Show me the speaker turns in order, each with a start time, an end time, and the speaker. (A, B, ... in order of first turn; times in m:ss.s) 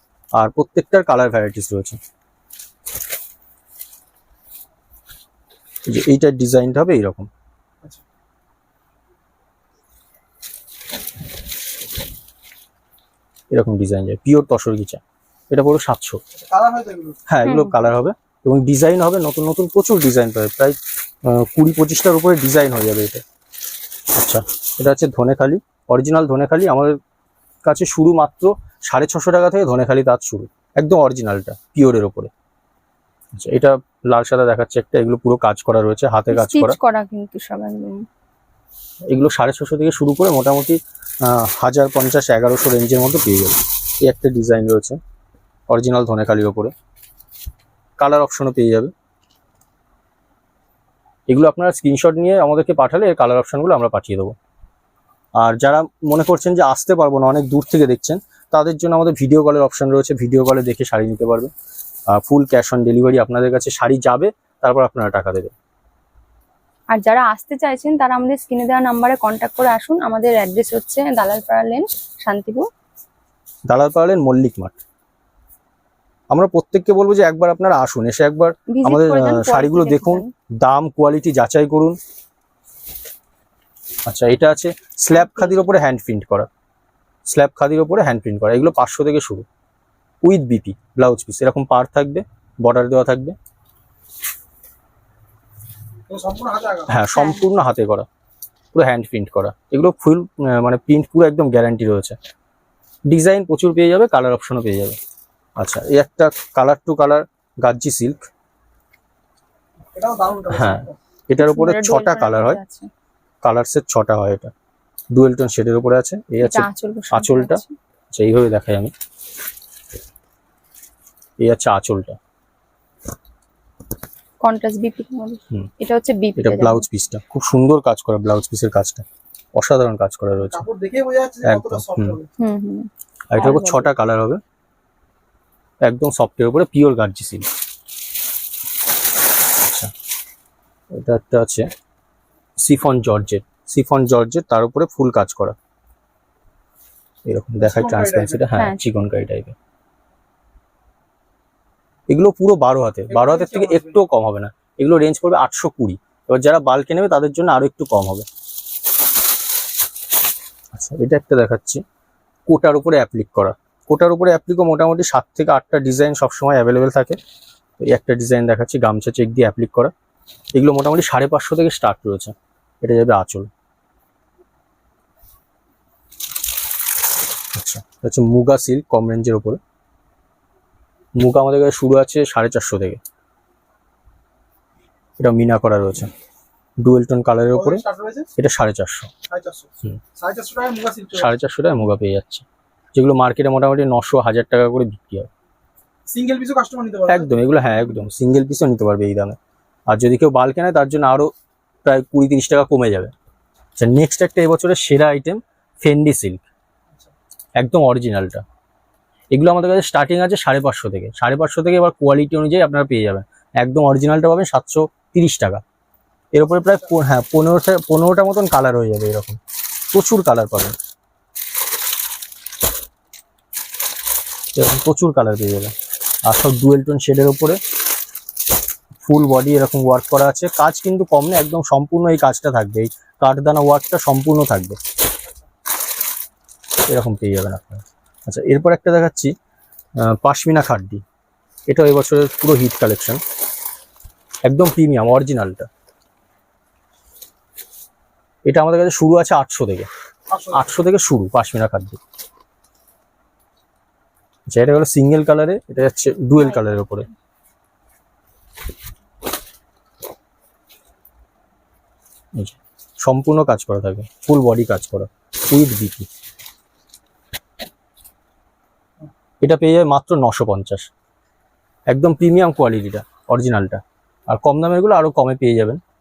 0:00.4-0:02.0 A
0:05.9-0:07.3 A
0:13.5-0:16.2 A
0:16.4-0:17.2 B
0:17.3-0:23.2 A
0:17.4-0:17.9 C
0:24.1-0:27.0 A
0:27.6-0:32.3 A
0:33.4-0:36.8 A
0:36.3-0:38.1 C
0:39.1-0:45.0 A
0:45.7-0:46.7 A
0:48.0-0:48.9 A
0:51.3-0:54.4 A
0:55.4-1:01.5 A
1:02.1-1:05.5 A
1:06.9-1:12.7 C
1:13.7-1:14.8 A
1:16.3-1:22.0 A
1:18.7-1:20.3 C
1:24.1-1:26.5 A
1:25.2-1:25.8 C
1:27.2-1:29.5 A
1:30.2-1:33.4 A
1:36.1-1:36.9 B
1:36.9-1:38.1 A
1:37.1-1:37.4 C
1:38.7-1:42.2 A
1:43.1-1:45.0 A
1:45.6-1:48.3 A
1:49.9-1:51.0 B
1:50.5-1:52.6 A
1:51.4-1:52.9 C
1:53.4-1:54.5 A
1:55.1-1:57.6 A
1:56.4-1:57.8 C
1:58.1-1:58.9 A
2:01.4-2:02.2 A
2:04.4-2:06.8 C
2:06.4-2:10.7 A
2:10.4-2:12.3 B
2:11.4-2:12.2 A
2:12.4-2:13.9 C
2:13.3-2:14.4 A
2:15.8-2:17.5 A
2:19.6-2:19.9 A
2:20.9-2:21.7 A
2:22.6-2:25.6 A
2:27.2-2:29.6 A
2:27.6-2:28.5 B
2:28.5-2:28.8 C
2:32.1-2:38.3 A
2:33.1-2:34.0 B
2:40.7-2:41.8 A
2:42.5-2:47.2 A
2:47.8-2:49.9 A
2:50.6-2:53.5 A
2:57.5-2:59.6 A
3:01.2-3:03.0 A
3:05.2-3:06.1 A
3:06.8-3:07.8 A
3:07.5-3:08.3 B
3:08.4-3:09.1 A
3:09.3-3:11.3 B
3:11.1-3:15.3 A
3:16.1-3:17.3 B
3:17.1-3:19.4 A
3:19.9-3:21.3 A
3:21.8-3:23.1 A
3:23.8-3:26.4 A
3:27.6-3:28.4 A
3:29.3-3:35.6 A
3:36.3-3:39.4 A
3:39.9-3:40.8 A
3:44.6-3:45.7 A
3:46.3-3:47.6 A
3:49.0-3:54.8 A
3:56.9-3:59.3 A
4:00.0-4:01.0 A
4:01.7-4:03.2 A
4:04.5-4:05.7 A
4:08.5-4:09.9 A
4:10.3-4:10.6 B
4:10.5-4:12.0 A
4:14.5-4:17.1 A
4:16.4-4:17.1 C
4:22.4-4:26.1 A
4:29.4-4:30.9 A
4:31.9-4:35.8 A